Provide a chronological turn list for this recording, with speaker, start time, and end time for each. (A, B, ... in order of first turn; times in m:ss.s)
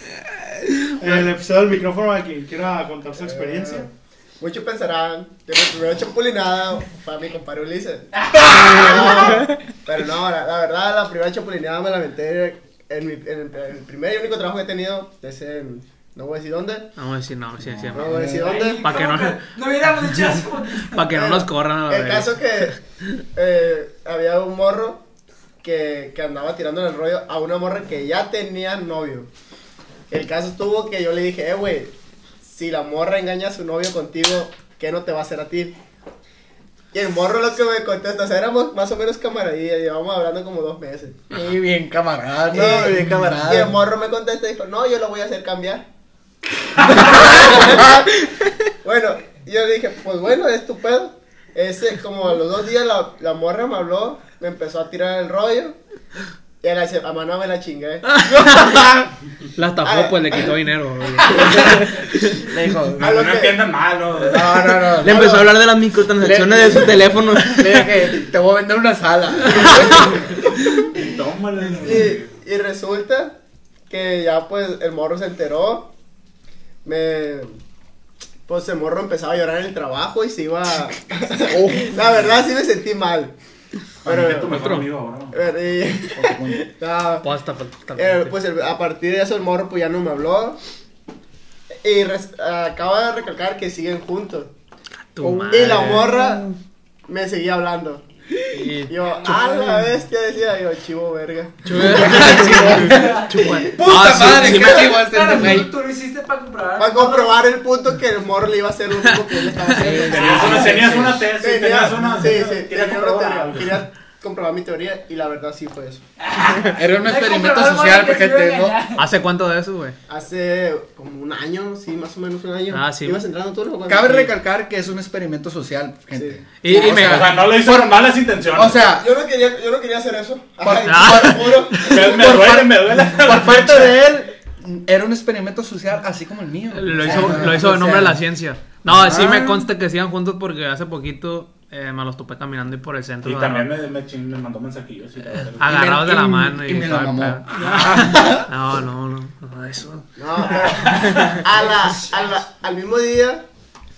0:01.0-0:03.9 A
0:03.2-0:03.9 B
0:04.4-0:16.9 B
0:08.2-0:09.2 C
0:17.0-0:18.1 D
0:17.9-0:18.7 E
0:17.9-0:18.8 B
0:18.4-0:21.1 C
0:18.8-0:19.4 D
0:20.9-0:22.7 D
0:21.1-0:22.8 B
0:23.3-0:25.0 B
0:25.6-0:29.3 B
0:30.1-0:35.8 B
0:36.9-0:41.2 B
0:41.3-0:43.8 E
0:42.5-0:45.8 B
0:46.8-0:48.1 B
0:48.8-0:55.8 B
0:56.6-0:58.1 B
0:58.1-0:58.8 D
0:59.6-1:01.8 D
0:59.8-1:00.5 B
1:01.3-1:01.6 C
1:01.4-1:01.7 B
1:02.4-1:03.1 E
1:03.0-1:05.0 F
1:03.0-1:03.8 B
1:04.2-1:05.2 E
1:05.0-1:07.9 G
1:05.0-1:05.5 B
1:06.2-1:10.2 E
1:09.6-1:10.1 B
1:10.9-1:12.4 F
1:11.8-1:13.4 B
1:13.9-1:15.9 B
1:16.8-1:17.6 B
1:18.5-1:23.3 B
1:21.5-1:22.0 E
1:24.0-1:25.4 F
1:24.0-1:24.7 B
1:24.5-1:24.9 D
1:25.3-1:27.3 B
1:26.1-1:26.6 E
1:27.2-1:28.3 D
1:28.0-1:30.6 B
1:31.8-1:34.5 B
1:35.2-1:36.2 D
1:35.2-1:36.0 E
1:35.5-1:36.4 B
1:37.1-1:38.0 B
1:38.5-1:39.0 D
1:38.9-1:42.5 B
1:41.6-1:44.9 D
1:42.0-1:43.1 E
1:42.1-1:43.7 C
1:43.7-1:45.7 E
1:44.4-1:47.4 C
1:46.8-1:56.0 B
1:49.8-1:51.2 E
1:49.8-1:50.9 C
1:50.0-1:53.8 F
1:56.2-1:59.1 C
1:56.7-1:58.8 E
1:59.0-2:00.0 D
2:00.1-2:04.3 B
2:02.7-2:03.2 D
2:03.9-2:08.0 E
2:06.2-2:06.4 B
2:06.6-2:07.4 D
2:06.8-2:08.9 F
2:08.5-2:09.1 E
2:08.9-2:12.3 B
2:10.6-2:18.2 E
2:10.8-2:12.0 D
2:11.8-2:14.0 F
2:16.7-2:23.7 D
2:18.9-2:19.7 E
2:23.2-2:25.9 F
2:25.6-2:31.4 D
2:25.6-2:28.5 E
2:30.2-2:33.4 B
2:31.1-2:32.3 C